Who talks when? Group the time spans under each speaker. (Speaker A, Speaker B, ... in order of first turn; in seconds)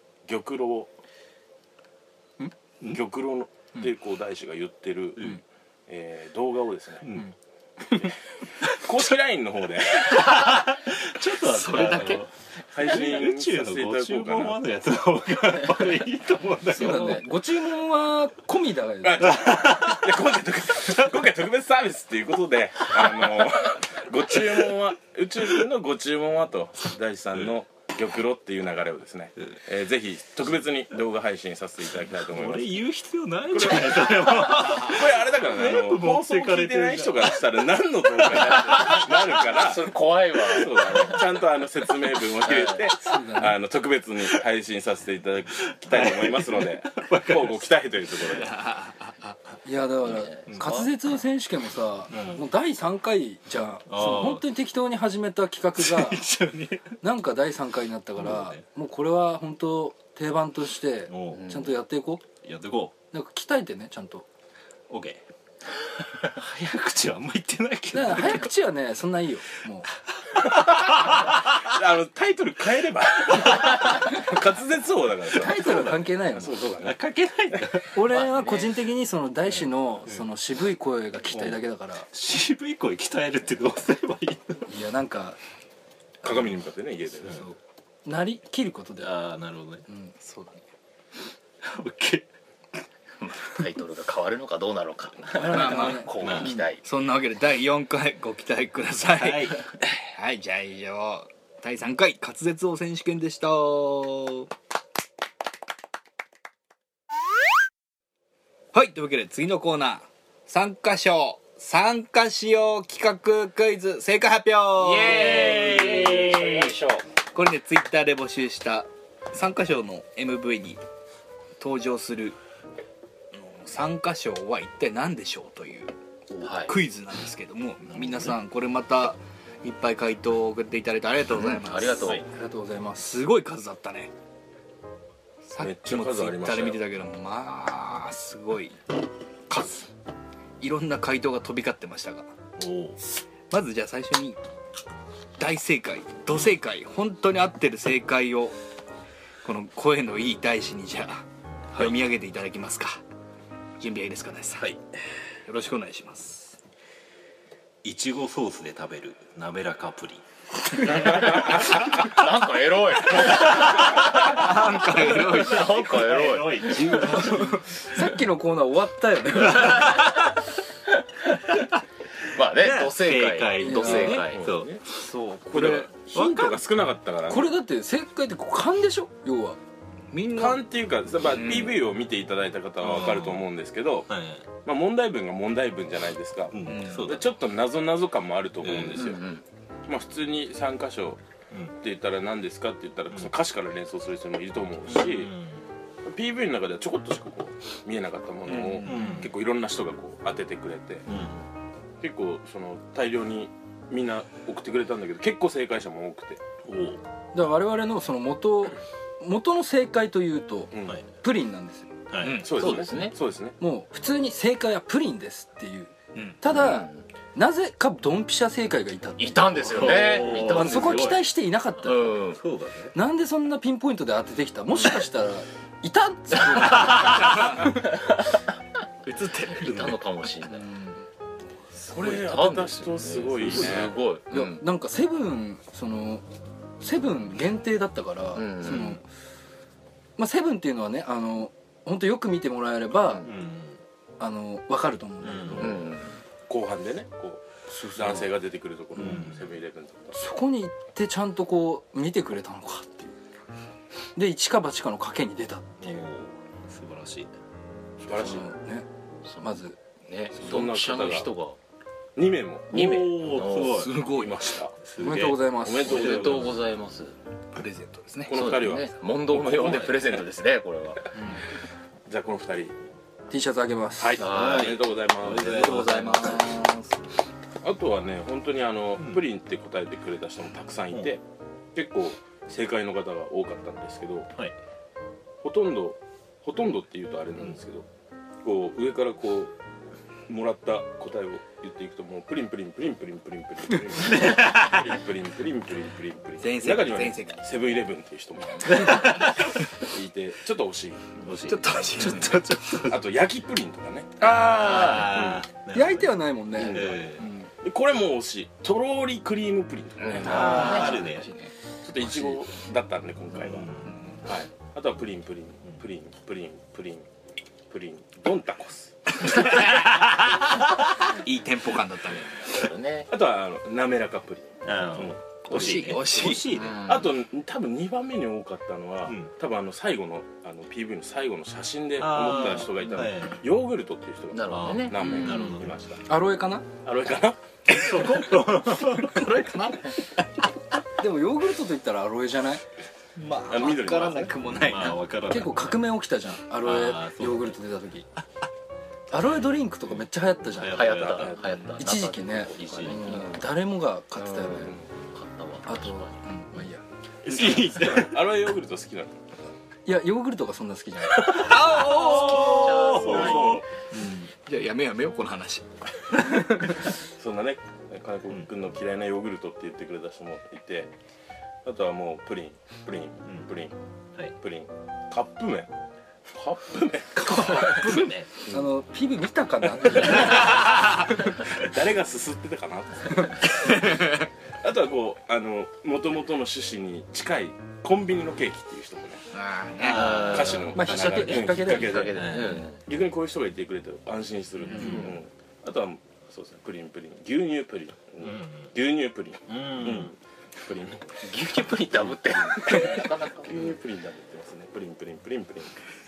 Speaker A: 0.2-0.9, 2.9-7.2, 8.6-10.5, 12.7-14.6, 19.0-32.8, 33.5-48.6, 70.7-77.0, 86.2-87.4, 135.6-136.8, 174.2-174.8, 175.5-177.5, 180.3-184.1, 184.6-191.2, 191.8-195.3, 196.1-201.1, 202.0-206.4, 210.7-211.0, 212.3-213.6, 231.9-234.0, 246.5-247.4, 247.9-250.2, 258.0-258.5, 260.3-261.3, 262.2-262.8, 264.1-264.8, 265.3-266.6, 268.3-270.2, 272.1-272.8, 274.0-276.4, 277.6-281.2, 281.7-284.3, 285.4-287.9, 288.4-289.5, 290.3-301.1, 302.9-305.5, 306.6-307.1, 307.6-310.9, 311.8-317.1, 317.7-319.6, 323.1-326.3, 326.8-336.1, 336.8-338.0, 343.5-344.4, 351.0-351.5, 357.4-359.2, 362.9-363.6, 367.0-370.9, 371.6-373.8, 374.4-375.7, 376.3-378.0, 379.7-389.2, 390.2-401.2, 402.6-405.8
Speaker B: 5.2-5.4, 7.0-7.3, 10.1-17.3, 19.4-20.1, 32.3-37.4, 45.7-47.7, 52.1-52.4, 53.9-54.4, 55.8-57.0, 58.2-58.6, 61.1-61.5, 62.4-62.9, 64.9-65.2, 66.3-68.5, 70.3-71.6, 76.8-78.0, 81.3-84.7, 89.0-89.8, 91.6-92.3, 96.2-96.6, 99.2-99.6, 115.1-116.7, 142.6-143.0, 157.8-160.2, 160.8-161.4, 163.2-168.0, 172.6-174.8, 176.2-176.5, 182.8-183.4, 184.1-184.4, 186.5-187.3, 188.6-189.1, 194.9-195.6, 198.8-199.3, 201.1-201.4, 206.7-207.0, 212.1-212.5, 219.6-221.2, 222.3-222.9, 226.8-227.2, 229.5-229.9, 243.2-243.8, 245.2-245.8, 249.0-249.5, 255.8-257.3, 262.7-264.0, 264.8-266.5, 275.1-276.5, 294.1-294.8, 298.8-299.3, 301.2-303.0, 304.2-307.3, 310.2-311.3, 313.4-313.9, 319.7-320.3, 324.6-326.8, 332.0-333.4, 334.5-335.8, 337.7-339.4, 344.4-345.9, 346.6-347.6, 350.6-351.9, 352.5-353.1, 357.2-358.1, 361.2-364.3, 389.8-390.8, 392.1-392.7, 394.7-395.1, 398.2-398.7, 399.5-400.1
Speaker C: 11.4-12.2, 48.2-49.4, 95.4-104.5, 108.7-115.9, 117.3-120.8, 121.6-122.4, 123.3-132.2, 133.0-134.1, 135.5-138.8, 139.5-139.9, 140.6-142.3, 143.5-144.4, 145.4-148.6, 149.4-153.0, 153.8-154.7, 155.5-156.6, 164.3-165.9, 166.7-167.6, 180.1-180.6, 181.3-181.8, 186.7-187.2, 212.2-212.7, 229.1-229.8, 263.7-264.4, 267.6-268.4, 275.4-276.7, 296.4-297.4, 301.4-302.9, 310.3-311.5, 319.4-319.8, 321.1-322.6, 325.5-326.6, 338.0-340.1, 343.2-345.0, 361.2-362.8, 364.3-366.7, 377.6-377.8, 389.3-390.5
Speaker D: 16.7-19.4, 43.0-43.6, 49.6-56.2, 57.0-62.2, 63.1-64.3, 67.9-69.9, 75.4-76.6, 77.9-82.1, 84.7-85.4, 87.4-89.1, 89.9-90.6, 95.3-96.1, 132.2-133.1, 167.1-170.0, 173.6-174.2, 175.1-176.2, 177.3-179.6, 207.3-211.9, 213.6-222.2, 222.9-227.8, 230.6-231.0, 234.3-236.2, 236.8-239.0, 240.2-243.3, 244.2-245.9, 247.7-248.3, 250.1-253.2, 254.2-256.0, 258.1-258.9, 259.4-259.8, 265.0-266.1, 273.3-274.6, 275.8-276.9, 304.3-304.8, 305.7-307.5, 336.1-336.7, 341.0-342.6, 345.3-348.1, 349.1-350.9, 351.8-354.8, 355.7-356.8, 359.9-361.4, 377.2-380.9, 390.8-392.1
Speaker E: 38.6-41.2, 42.5-42.8, 50.0-50.9, 61.4-61.7, 78.1-78.7, 93.2-96.8, 114.8-117.0, 126.4-126.8, 131.3-132.3, 161.1-164.3, 165.2-166.9, 172.3-174.4, 189.0-189.4, 212.5-213.2, 216.5-217.0, 219.2-221.2, 221.8-222.4, 227.7-228.4, 229.4-230.7, 231.9-234.6, 238.3-239.0, 245.6-246.2, 259.2-259.6, 260.1-261.6, 262.7-263.8, 265.9-267.2, 268.3-271.1, 274.2-274.8, 304.6-305.1, 310.0-311.0, 322.5-323.1, 326.4-327.1, 334.3-335.6, 350.7-353.5, 354.2-356.2, 361.8-363.6, 389.9-392.8, 401.2-403.8